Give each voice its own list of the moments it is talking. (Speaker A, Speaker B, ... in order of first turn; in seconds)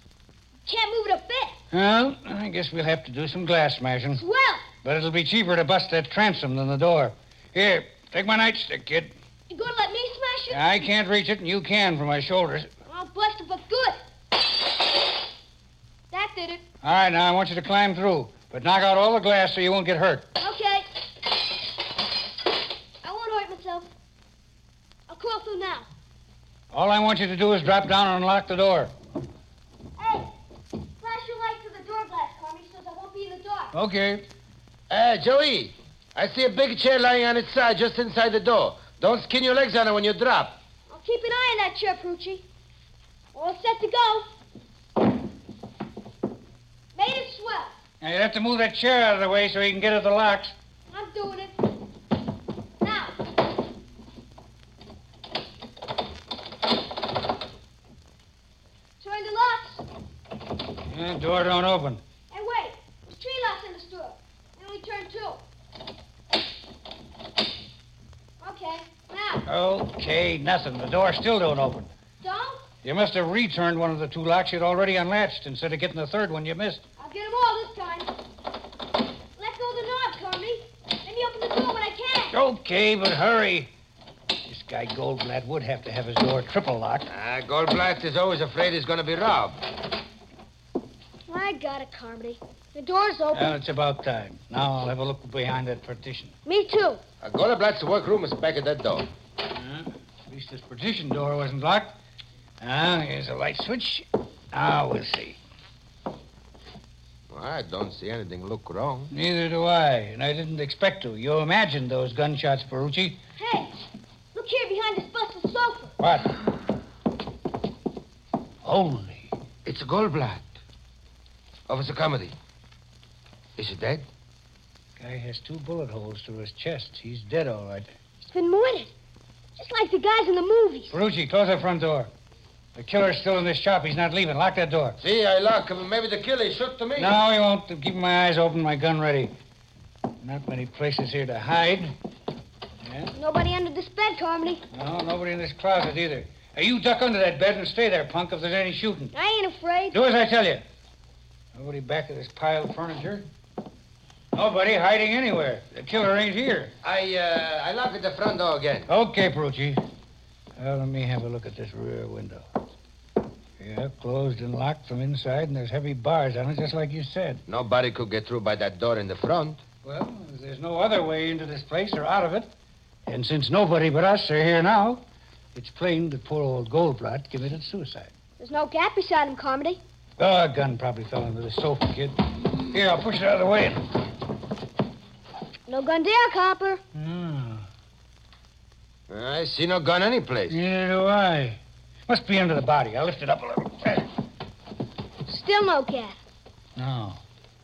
Speaker A: 0.7-1.6, 4.2-4.7, 9.5-10.6, 12.9-14.0, 16.1-16.6, 20.4-20.9, 23.0-23.9, 25.1-25.9, 30.0-30.3, 31.0-33.7, 40.9-42.5, 43.3-44.3, 47.0-47.7, 50.9-51.7, 52.8-53.1, 59.0-59.9, 62.3-65.4, 68.4-69.5, 72.2-72.7, 77.0-78.1, 79.4-82.4, 91.3-93.5, 96.5-97.0, 113.4-113.7, 114.3-115.9, 128.2-128.9, 129.6-131.0, 143.2-144.6, 149.1-150.0, 178.4-179.8, 185.7-186.8, 195.3-196.2
Speaker B: 1.7-4.2, 4.8-9.1, 10.5-12.7, 16.8-20.3, 26.7-28.9, 33.7-34.3, 48.0-50.5, 60.9-62.0, 69.5-71.9, 72.8-76.8, 82.3-83.7, 84.4-87.1, 93.3-96.3, 99.5-101.9, 102.6-105.4, 109.1-113.2, 116.0-116.3, 118.6-119.3, 125.0-127.9, 130.9-132.1, 132.8-135.0, 137.0-139.3, 140.2-142.0, 142.8-143.1, 144.7-149.1, 149.9-150.6, 151.6-153.3, 154.3-156.7, 158.9-159.8, 160.6-162.5, 163.6-167.4, 169.8-172.5, 173.1-175.0, 175.6-178.1, 180.2-183.9, 186.9-187.7, 190.5-194.1, 196.8-197.2
Speaker C: 34.9-40.6, 87.1-89.6, 97.2-99.1, 107.3-109.1, 119.7-120.5, 121.7-122.3, 123.6-124.1, 135.0-137.1, 156.8-158.9, 167.5-169.6, 189.1-190.6